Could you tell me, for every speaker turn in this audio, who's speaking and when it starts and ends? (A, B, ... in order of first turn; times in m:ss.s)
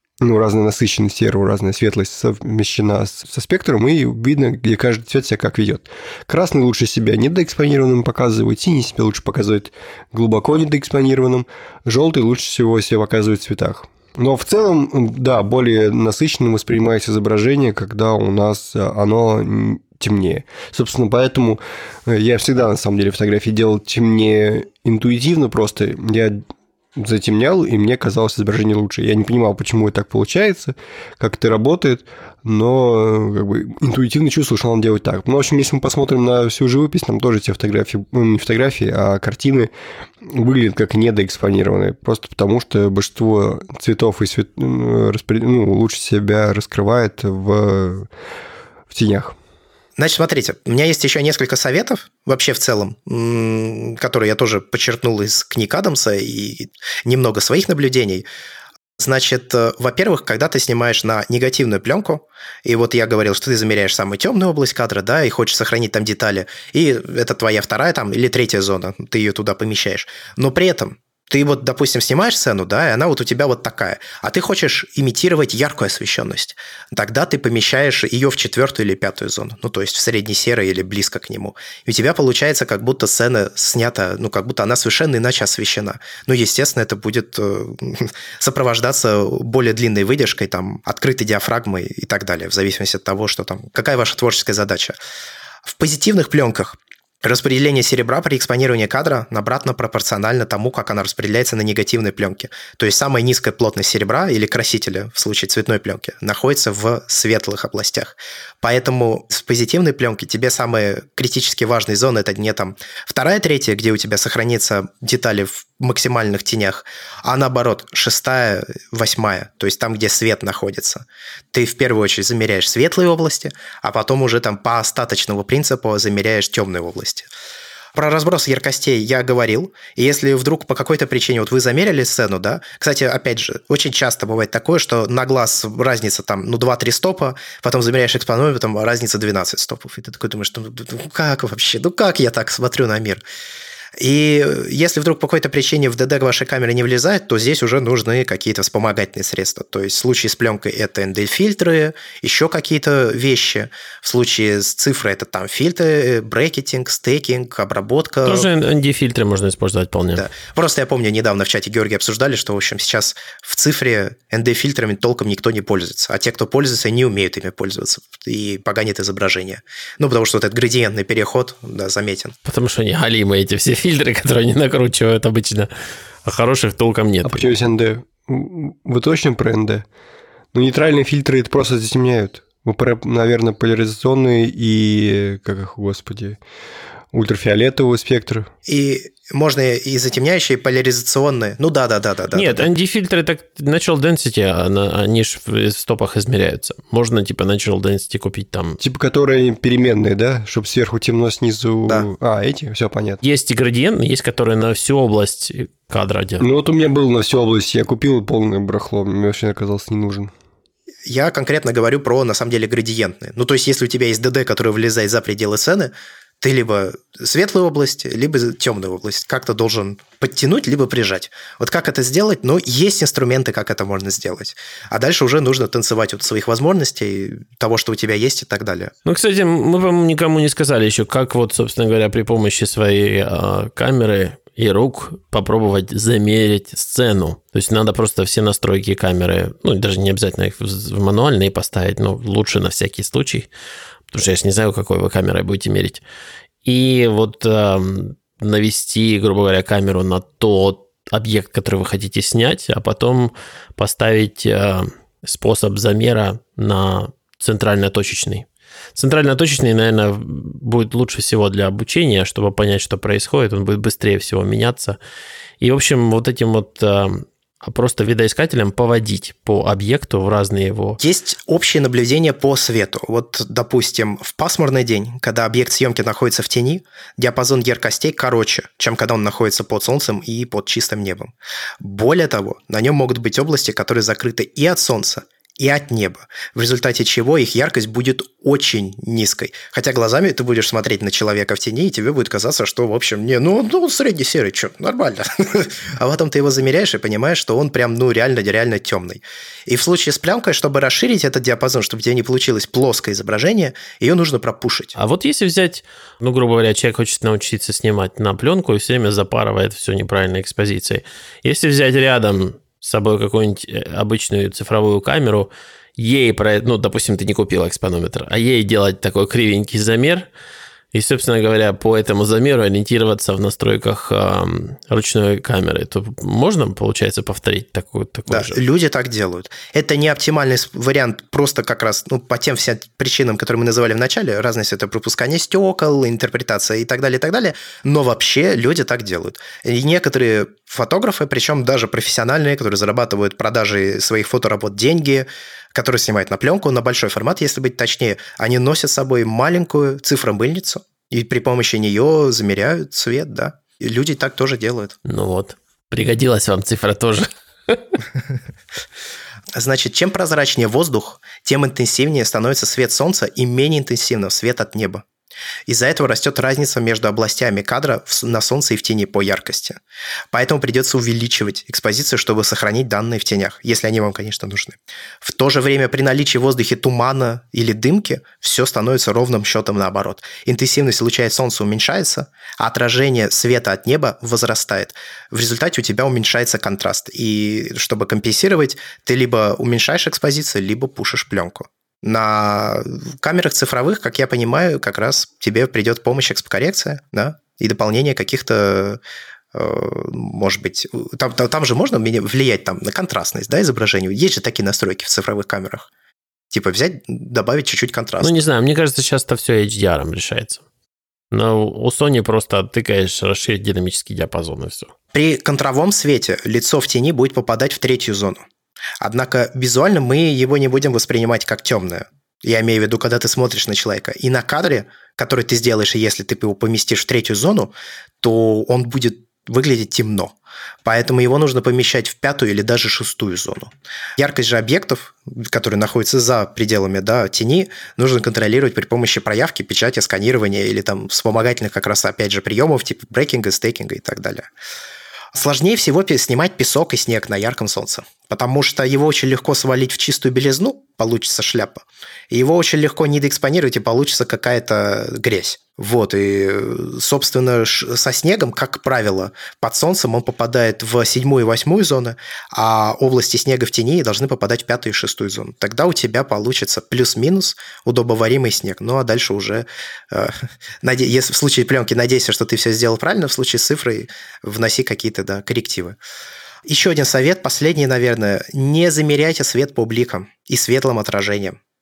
0:00.2-0:39.7 A
0:40.2-0:48.1 A
0:48.9-0:49.4 A
0:50.0-0:58.3 B
0:59.0-1:35.0 B
1:35.6-2:07.3 B
2:08.0-2:23.2 B
2:24.0-2:38.5 B
2:38.2-2:40.2 C
2:40.2-2:52.4 B
2:52.4-2:55.7 C
2:56.2-2:57.5 C
2:57.2-2:59.8 A
3:00.5-3:06.4 A
3:07.1-3:08.5 A
3:08.7-3:12.7 B
3:12.3-3:18.8 C
3:18.8-3:23.2 A
3:23.2-3:26.4 C
3:26.4-3:30.3 A
3:31.1-3:48.9 B
3:49.0-4:03.5 C
4:04.1-4:06.0 C
4:06.6-4:25.0 C
4:25.6-4:31.0 C
4:31.0-5:05.0 B
5:05.0-5:20.3 C
5:20.9-5:28.6 C
5:28.3-5:55.0 B
5:55.0-5:57.8 C
5:59.6-6:05.0 B
6:05.7-6:09.8 B
6:10.3-6:39.0 B
6:39.5-6:45.9 B
6:46.5-6:48.4 B
6:48.2-6:50.6 C
6:51.3-6:54.9 C
6:55.1-6:58.4 B
6:59.0-7:24.5 B
7:25.3-7:56.0 B
7:56.6-8:01.6 B